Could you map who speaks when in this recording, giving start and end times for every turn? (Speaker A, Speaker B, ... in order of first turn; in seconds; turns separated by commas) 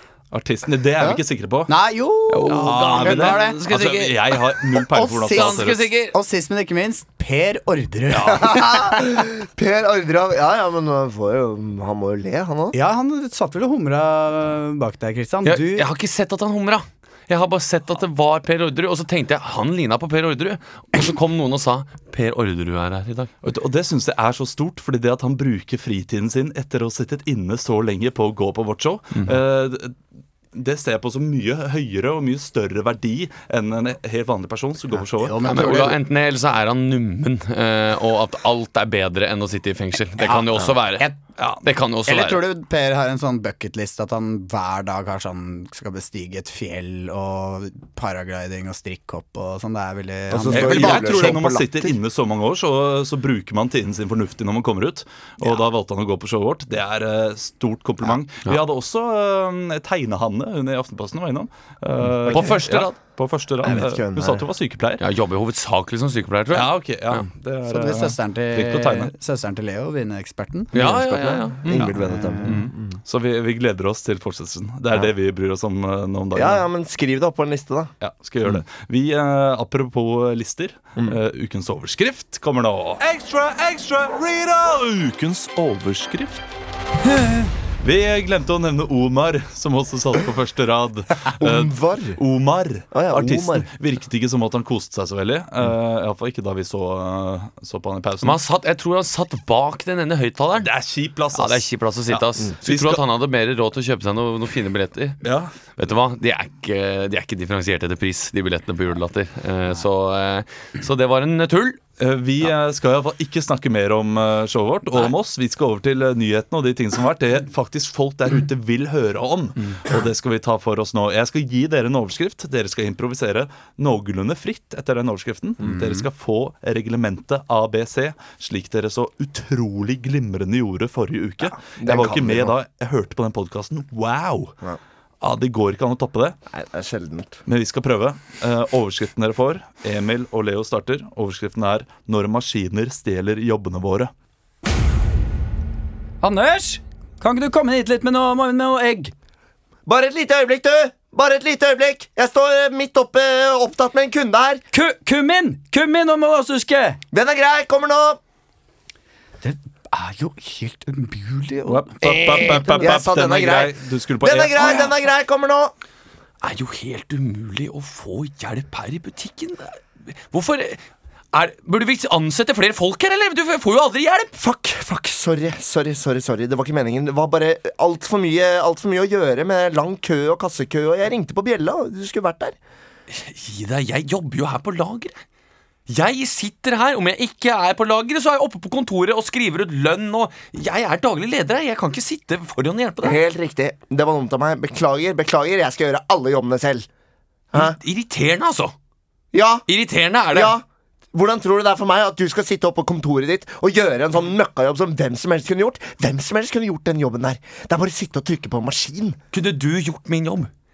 Speaker A: 0.3-1.8, Speaker B: 1.7-3.6, Speaker C: 2.3-6.1, Speaker A: 2.4-5.9, Speaker B: 4.9-9.2, Speaker D: 8.2-12.8, Speaker B: 12.7-15.9, Speaker C: 15.4-23.3, Speaker A: 23.4-30.0, Speaker A: 30.5-35.7, Speaker B: 35.0-36.0, Speaker C: 35.5-41.1, Speaker B: 40.2-41.2, Speaker A: 41.4-41.6, Speaker C: 41.6-42.4, Speaker B: 42.1-51.5, Speaker D: 50.3-52.0, Speaker A: 50.5-65.0, Speaker D: 62.0-62.6, Speaker C: 62.3-63.0, Speaker D: 63.6-64.5, Speaker C: 65.0-67.2, Speaker A: 66.5-69.1, Speaker B: 67.7-70.7, Speaker C: 70.7-72.0, Speaker D: 70.7-73.0, Speaker A: 71.7-76.6, Speaker B: 72.0-72.7, Speaker D: 76.3-77.9, Speaker A: 78.0-86.4, Speaker A: 87.8-98.4, Speaker D: 91.4-92.2, Speaker D: 92.9-93.7, Speaker C: 98.2-100.7, Speaker A: 100.6-103.0, Speaker C: 101.3-105.2, Speaker A: 105.2-105.5, Speaker C: 105.8-111.8, Speaker A: 112.0-134.6, Speaker B: 125.8-126.0, Speaker D: 131.4-132.6, Speaker A: 135.2-136.4, Speaker D: 136.5-137.4, Speaker A: 137.4-144.1, Speaker B: 146.2-149.1, Speaker D: 149.9-154.6, Speaker B: 154.7-157.0, Speaker D: 157.1-158.2, Speaker B: 159.4-162.9, Speaker A: 161.7-164.8, Speaker D: 162.8-165.7, Speaker C: 166.4-170.8, Speaker C: 171.3-174.3, Speaker D: 174.3-182.6, Speaker C: 183.1-185.2, Speaker C: 185.9-193.2, Speaker D: 193.0-196.9, Speaker D: 197.5-197.8, Speaker C: 197.5-198.7, Speaker D: 199.3-199.7, Speaker C: 199.7-200.6, Speaker D: 200.3-209.2, Speaker C: 209.3-210.5